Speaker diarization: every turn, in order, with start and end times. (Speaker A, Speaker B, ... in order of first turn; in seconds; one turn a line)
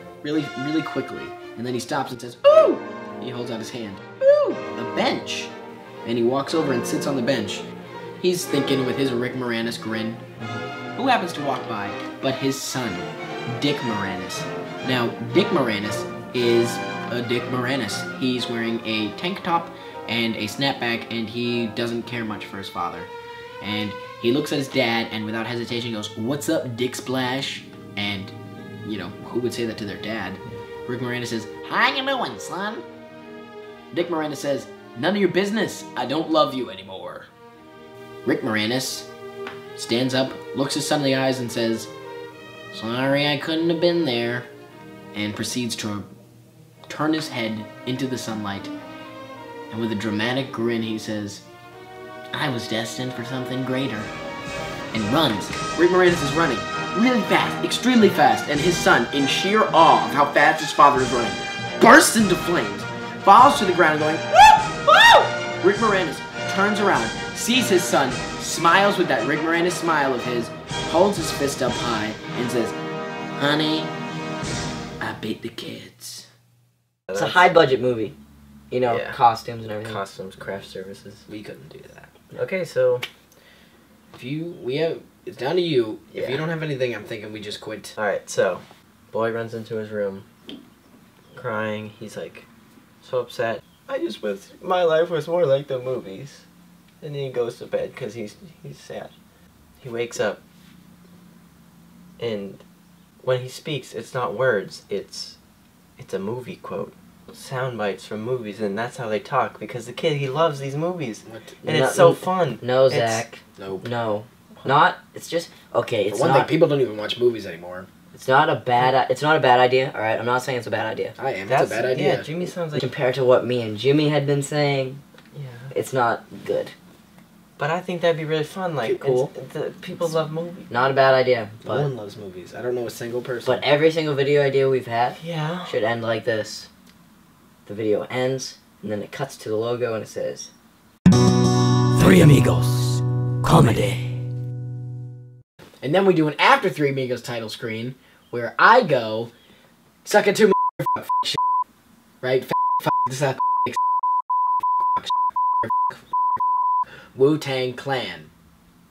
Speaker A: 0.2-5.5
Speaker A: 6.0-7.7
Speaker A: 8.2-10.2
Speaker A: 10.9-23.1
Speaker A: 23.6-32.8
Speaker A: 33.9-37.3
Speaker A: 38.2-39.1
Speaker A: 39.8-41.9
Speaker A: 42.7-44.5
Speaker A: 45.1-46.1
Speaker A: 46.9-48.7
Speaker A: 49.7-51.4
Speaker A: 52.3-54.1
Speaker A: 54.9-72.8
Speaker A: 73.4-73.9
Speaker A: 75.0-76.3
Speaker B: 77.1-78.1
Speaker B: 78.7-80.0
Speaker C: 78.9-79.2
Speaker C: 79.8-81.2
Speaker A: 81.3-82.2
Speaker C: 82.3-83.0
Speaker A: 84.1-88.0
Speaker C: 86.1-86.4
Speaker C: 88.0-90.2
Speaker C: 91.3-92.5
Speaker C: 93.0-96.4
Speaker C: 97.0-99.1
Speaker C: 99.8-100.4
Speaker C: 102.2-102.6
Speaker C: 103.2-105.4
Speaker C: 106.0-113.2
Speaker A: 111.2-111.6
Speaker B: 111.6-116.5
Speaker A: 113.6-113.8
Speaker A: 116.1-117.9
Speaker B: 118.1-121.1
Speaker A: 121.2-122.3
Speaker C: 121.5-122.9
Speaker B: 122.7-125.0
Speaker C: 125.3-125.7
Speaker B: 125.7-126.7
Speaker C: 127.6-130.7
Speaker B: 128.9-129.3
Speaker B: 130.7-131.9
Speaker A: 131.6-133.6
Speaker B: 133.4-136.7
Speaker C: 135.2-135.7
Speaker B: 137.7-140.5
Speaker B: 141.9-144.2
Speaker A: 145.8-149.3
Speaker A: 150.0-151.4
Speaker A: 152.2-153.8
Speaker A: 157.1-158.3